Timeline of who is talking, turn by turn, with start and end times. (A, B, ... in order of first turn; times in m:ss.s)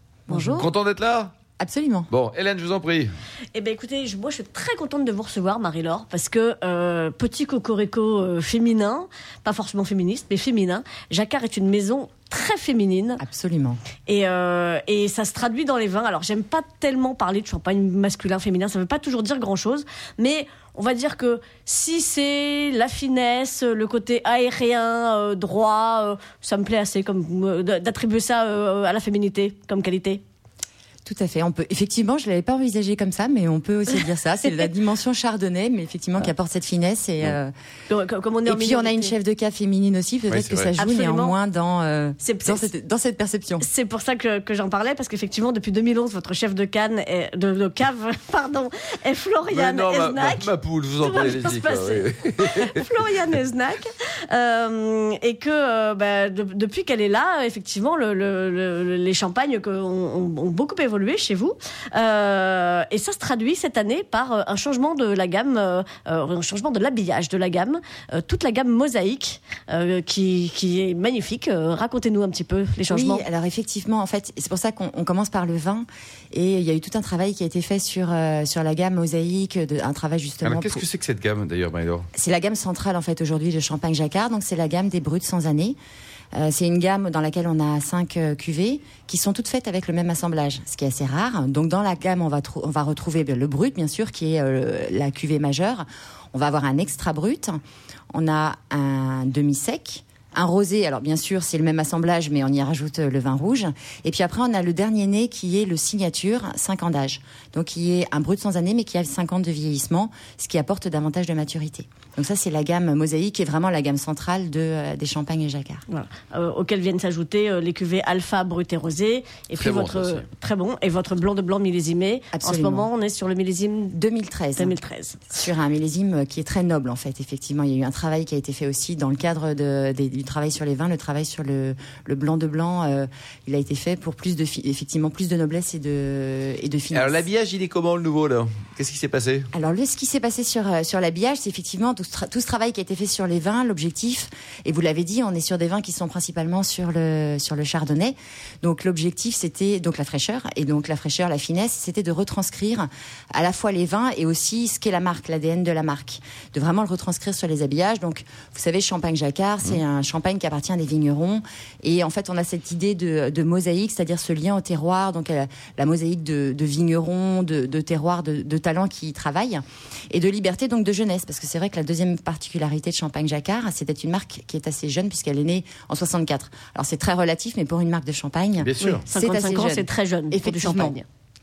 0:00.3-0:00.7 A
0:00.3-0:01.3 B
0:01.6-0:02.1 A
0:02.1-0:03.1 B
0:03.6-0:13.2 C
0:13.2-0:13.8 A
0:14.1-0:30.2 C
0:31.1-0:37.5 A
0:37.9-0:39.1 C
0:38.5-0:43.7 A
0:40.3-0:40.7 B
0:40.8-0:41.4 C
0:42.2-0:42.7 C
0:43.6-1:13.2 C
0:49.5-0:52.9 B
1:12.9-1:20.8 A
1:20.4-1:22.1 B
1:22.1-1:25.8 A
1:26.3-1:37.6 A
1:38.1-1:55.8 A
1:55.9-2:04.0 C
1:59.6-2:00.3 B
2:02.3-2:02.9 A
2:03.9-2:04.8 A
2:04.6-2:05.2 C
2:05.3-2:17.3 A
2:16.9-2:19.5 B
2:19.5-3:01.0 A
2:58.6-2:59.0 B
2:59.1-3:01.0 C